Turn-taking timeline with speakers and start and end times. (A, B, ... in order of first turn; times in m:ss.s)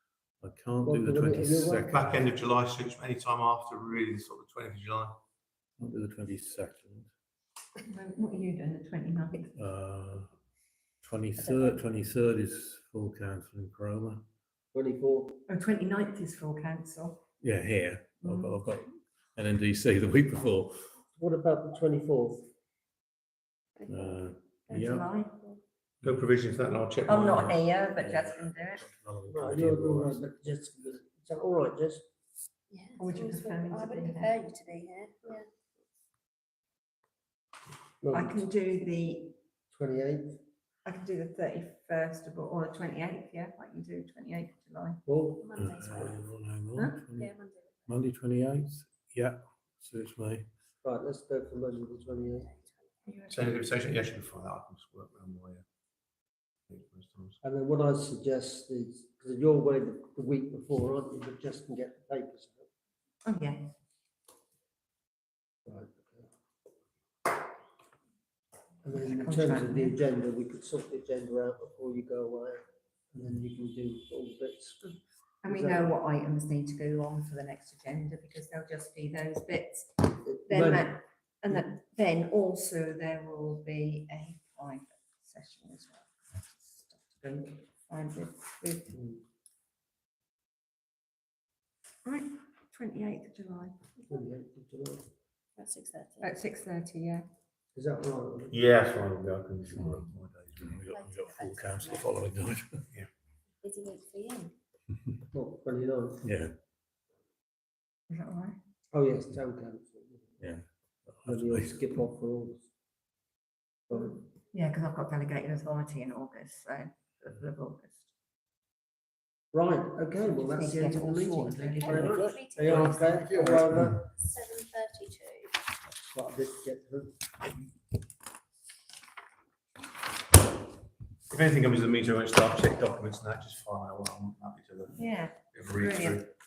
0:00.4-0:02.2 A
0:00.8-0:01.9 B
0:01.9-0:05.2 C
0:05.8-0:07.1 A
0:07.8-0:09.6 D
0:09.5-0:10.3 A
0:11.0-0:14.2 A
0:11.4-0:11.8 D
0:14.7-0:15.4 B
0:15.5-0:17.2 D
0:17.4-0:20.9 A
0:18.2-0:18.6 D
0:21.2-0:22.5 B
0:23.8-0:24.2 E
0:23.8-0:25.0 A
0:24.7-0:25.5 D
0:26.0-0:27.6 C
0:27.0-0:28.9 D
0:27.9-0:30.2 A
0:29.3-0:32.0 B
0:32.7-0:35.5 E
0:33.0-0:34.4 D
0:38.0-0:38.4 B
0:38.1-0:39.4 D
0:39.7-0:40.4 B
0:40.8-0:45.0 D
0:45.1-0:46.1 B
0:45.4-0:46.1 E
0:45.6-0:47.3 A
0:47.2-0:47.8 E
0:47.8-0:50.5 A
0:50.8-0:52.5 B
0:53.0-0:53.6 D
0:53.3-0:55.6 C
0:56.7-0:57.4 C
0:57.4-1:02.7 B
1:03.2-1:03.8 D
1:05.6-1:06.3 B
1:08.8-1:12.6 B
1:08.9-1:10.0 D
1:13.1-1:15.9 B
1:15.4-1:28.9 D
1:20.2-1:21.6 B
1:28.9-1:29.2 B
1:32.0-1:33.8 D
1:34.0-1:35.1 B
1:35.6-1:36.3 E
1:36.2-1:37.3 D
1:37.7-1:38.6 B
1:38.5-1:40.7 C
1:39.7-1:40.1 D
1:40.6-1:42.9 A
1:40.8-1:42.0 E
1:43.6-1:44.5 E
1:45.3-1:46.2 B
1:46.2-1:46.6 A
1:48.1-1:48.6 D
1:48.9-1:50.2 B
1:50.4-1:51.8 A
1:51.2-1:52.6 B
1:53.9-1:54.2 B
1:54.5-1:58.1 D
1:59.5-2:04.0 B
2:00.3-2:02.2 D
2:01.8-2:05.6 E
2:02.0-2:03.6 A
2:06.1-2:07.2 B
2:11.3-2:16.3 C
2:15.0-2:16.2 D